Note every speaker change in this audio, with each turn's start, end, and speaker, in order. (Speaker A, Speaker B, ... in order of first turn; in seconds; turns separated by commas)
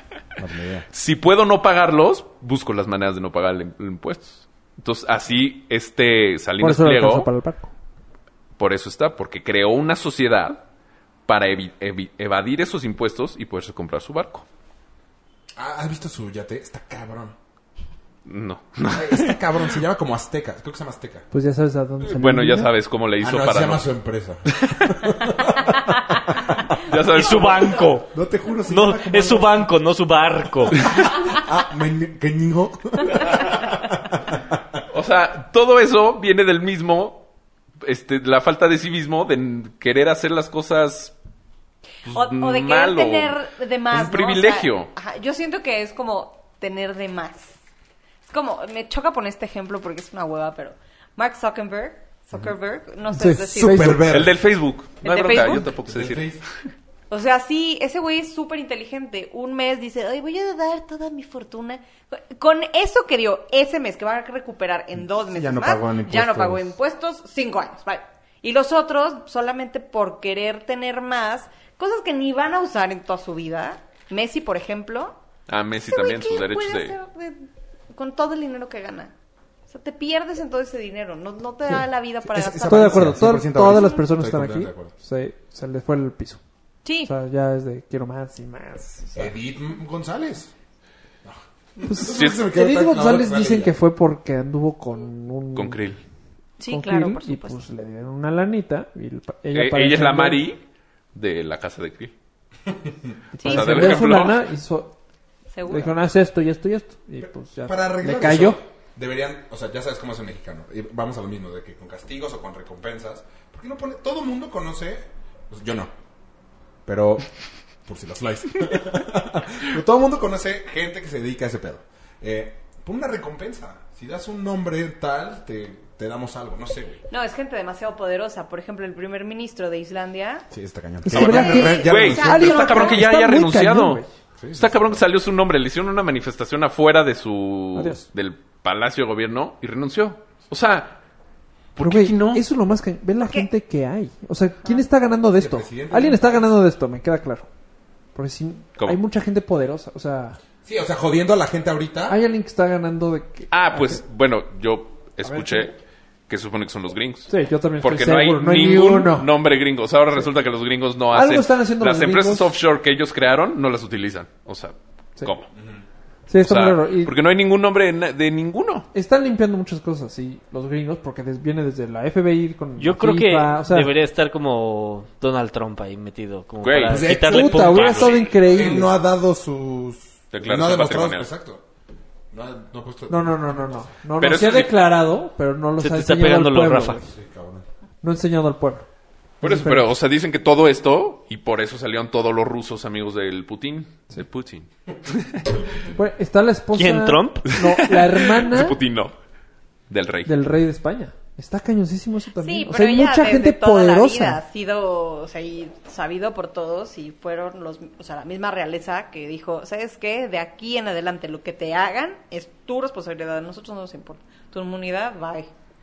Speaker A: 0.4-0.8, Speaker B: 0.9-7.3, Speaker C: 6.6-7.7, Speaker B: 8.6-10.6, Speaker B: 11.2-14.4, Speaker A: 15.6-17.3, Speaker B: 18.2-19.8, Speaker A: 18.9-21.2, Speaker C: 21.3-22.7, Speaker B: 22.1-23.9, Speaker A: 23.2-26.7, Speaker B: 26.8-27.8, Speaker D: 27.1-28.1, Speaker E: 27.1-27.9, Speaker A: 28.0-29.7, Speaker D: 28.7-30.8, Speaker A: 31.3-34.6, Speaker B: 34.9-37.2, Speaker B: 37.8-41.1, Speaker B: 42.0-43.4, Speaker E: 42.1-47.5, Speaker B: 43.9-44.9, Speaker E: 48.3-54.0, Speaker A: 53.1-54.4, Speaker C: 53.2-54.0, Speaker B: 54.1-56.5, Speaker E: 55.0-55.7, Speaker A: 55.6-56.4, Speaker E: 57.1-75.2, Speaker A: 65.0-66.7, Speaker B: 75.5-77.0, Speaker E: 75.8-77.4, Speaker E: 77.9-79.1, Speaker E: 79.7-83.9, Speaker A: 82.2-84.9, Speaker C: 82.7-86.4, Speaker E: 86.8-87.1, Speaker C: 87.0-89.3, Speaker A: 89.1-90.5, Speaker A: 91.2-93.7, Speaker C: 91.8-95.8, Speaker B: 92.1-92.5, Speaker B: 95.5-96.0, Speaker E: 96.6-97.6, Speaker C: 96.7-100.4, Speaker B: 99.5-100.6, Speaker B: 101.1-102.1, Speaker C: 103.3-104.9, Speaker E: 103.4-104.0, Speaker B: 103.4-104.4, Speaker E: 105.5-106.0, Speaker C: 105.7-108.6, Speaker A: 107.2-115.9, Speaker A: 116.8-117.3, Speaker A: 117.8-127.0, Speaker E: 127.1-130.5, Speaker A: 130.5-132.6, Speaker C: 131.0-134.1, Speaker E: 131.1-133.0, Speaker B: 131.1-141.0, Speaker A: 134.4-135.1, Speaker C: 137.7-138.1, Speaker B: 141.8-142.4, Speaker C: 141.8-147.5, Speaker E: 143.2-143.5, Speaker A: 145.3-146.6, Speaker C: 148.1-150.4, Speaker A: 150.6-152.2, Speaker C: 152.1-154.0, Speaker B: 153.5-155.8, Speaker C: 155.2-155.7, Speaker B: 156.3-165.5, Speaker C: 157.3-159.3, Speaker C: 161.1-162.5, Speaker A: 165.6-165.8, Speaker C: 166.3-167.1, Speaker B: 166.4-168.9, Speaker C: 168.9-173.9, Speaker D: 172.8-178.3, Speaker B: 176.6-177.2, Speaker A: 176.9-181.6, Speaker C: 177.2-178.9, Speaker B: 177.7-178.3, Speaker B: 180.3-181.3, Speaker A: 182.3-183.8, Speaker C: 183.1-187.1, Speaker B: 184.2-184.8, Speaker D: 185.8-187.0, Speaker A: 187.0-187.6, Speaker C: 188.0-188.9, Speaker B: 189.4-195.5, Speaker C: 189.4-189.9, Speaker C: 195.9-198.8, Speaker D: 196.7-197.5, Speaker B: 197.5-199.1, Speaker B: 199.9-200.3, Speaker C: 200.2-204.4, Speaker E: 202.4-215.5